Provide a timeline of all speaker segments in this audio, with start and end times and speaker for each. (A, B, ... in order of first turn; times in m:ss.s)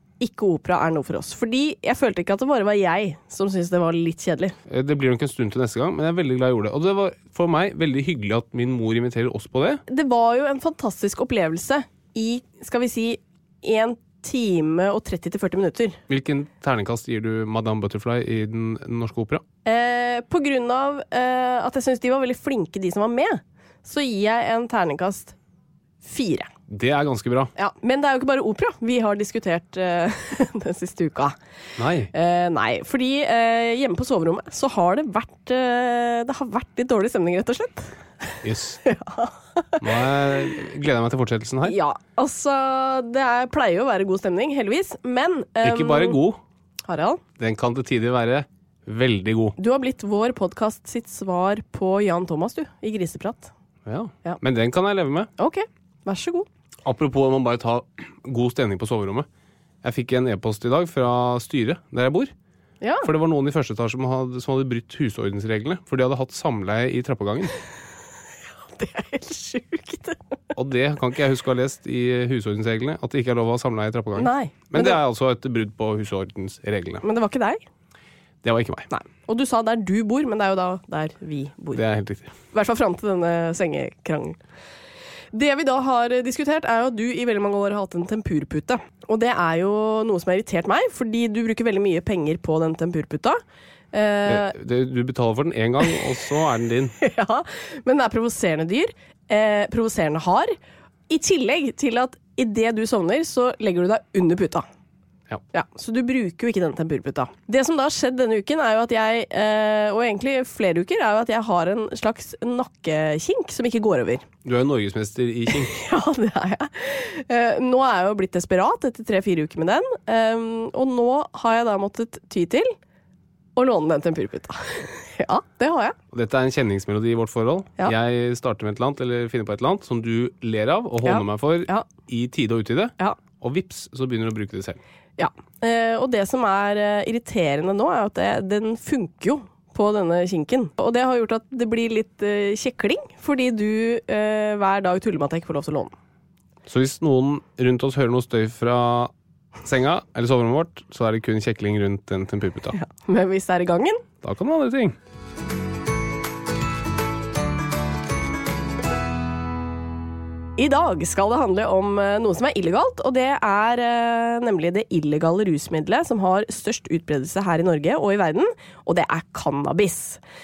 0:00.2-0:04.6 A
0:04.7-0:09.8 B
0:09.9-0:16.0 A
0:16.1-0:19.4 B
0:19.6-0:25.4 A
0:26.0-0:26.5 A
0:26.7-0:27.5 B
0:27.6-0:31.4 A
0:31.8-0:32.1 B
0:32.1-0:39.8 A
0:38.4-0:38.8 B
0:39.8-0:41.8 B
0:41.6-0:46.2 A
0:45.6-0:46.4 B
0:46.9-0:47.2 A
0:47.4-0:49.6 B
0:49.6-0:53.5 A
0:53.9-0:55.3 B
0:55.4-0:56.5 A
0:56.8-0:59.3 B
0:59.8-1:02.3 B
1:02.8-1:03.1 A
1:03.0-1:07.5 B
1:08.7-1:10.2 A
1:10.6-1:17.0 B
1:14.2-1:15.0 A
1:17.0-1:17.6 A
1:18.4-1:18.9 B
1:18.9-1:21.8 A
1:21.7-1:22.3 B
1:22.5-1:24.4 A
1:25.3-1:33.4 A
1:33.9-1:34.5 A
1:34.3-1:36.9 B
1:37.0-1:40.5 A
1:41.1-1:44.7 A
1:45.5-1:54.2 A
1:54.4-1:55.7 B
1:55.7-2:02.8 A
2:03.6-2:06.0 A
2:06.1-2:14.8 B
2:11.0-2:11.9 A
2:15.2-2:25.9 A
2:26.7-2:32.8 B
2:32.8-2:34.0 A
2:34.2-2:35.0 B
2:40.6-2:50.2 A